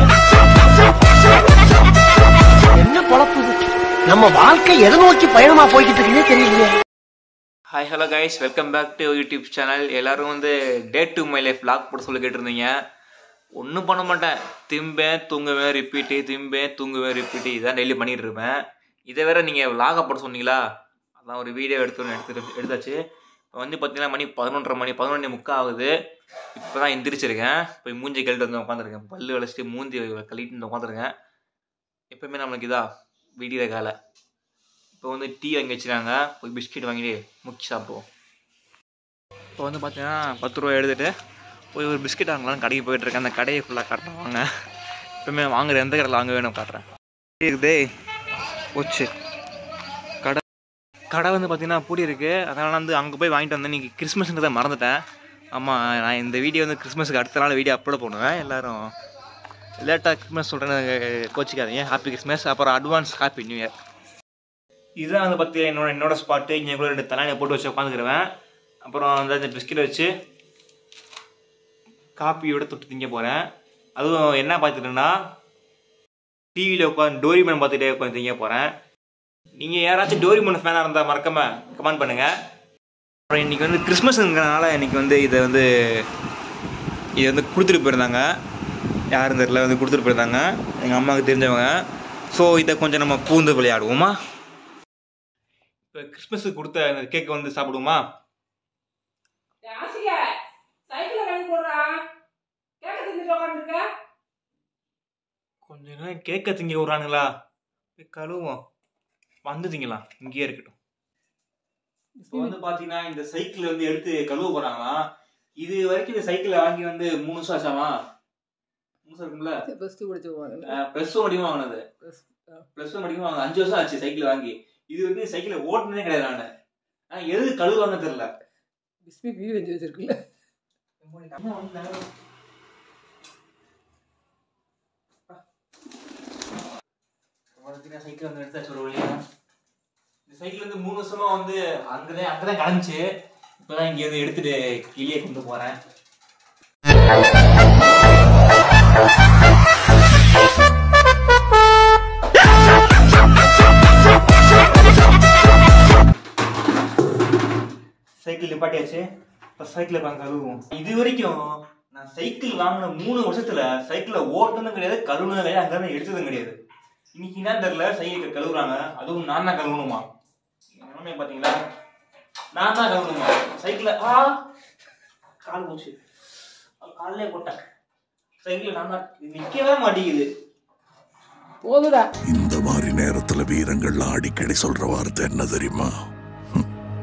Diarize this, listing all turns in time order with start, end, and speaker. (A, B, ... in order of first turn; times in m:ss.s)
0:02.8-0:06.8 A
0:07.7-0:12.7 B
0:13.6-0:20.6 B
0:21.2-0:23.0 B
0:23.6-0:25.9 B
0:26.6-0:31.1 B
0:32.1-0:32.8 B
0:33.4-0:33.9 B
0:35.0-0:38.1 B
0:39.6-0:41.1 B
0:41.7-0:44.5 B
0:45.2-0:46.8 B
0:47.4-0:47.9 B
0:48.8-0:49.1 B
0:51.1-0:55.0 B
0:55.5-0:58.9 B
0:59.8-1:03.7 B
1:05.0-1:08.3 B
1:08.9-1:10.1 B
1:12.2-1:13.4 B
1:14.0-1:15.1 B
1:16.6-1:18.7 B
1:19.6-1:22.3 B
1:23.3-1:26.0 B
1:27.2-1:28.2 B
1:29.1-1:31.7 B
1:32.3-1:34.2 B
1:35.9-1:38.0 B
1:39.6-1:40.3 C
1:40.9-1:42.0 C
1:42.8-1:43.9 C
1:45.7-1:47.3 B
1:48.0-1:48.6 B
1:49.5-1:50.8 B
1:52.2-1:52.5 C
1:52.3-1:55.0 B
1:55.6-1:57.9 B
1:59.0-1:59.6 B
1:59.7-2:00.8 C
2:00.6-2:01.8 B
2:02.0-2:02.6 C
2:02.8-2:06.5 B
2:07.1-2:08.3 B
2:09.1-2:10.2 C
2:11.0-2:12.1 B
2:17.6-2:19.2 B
2:20.3-2:23.0 B
2:23.6-2:25.8 B
2:38.2-2:39.0 B
2:39.6-2:46.6 B
2:47.1-2:50.0 B
2:50.8-2:51.6 B
2:52.6-2:54.4 B
2:55.4-2:56.0 B
2:56.8-2:57.6 B
2:58.4-3:00.3 B
3:01.6-3:02.1 C
3:02.3-3:05.9 D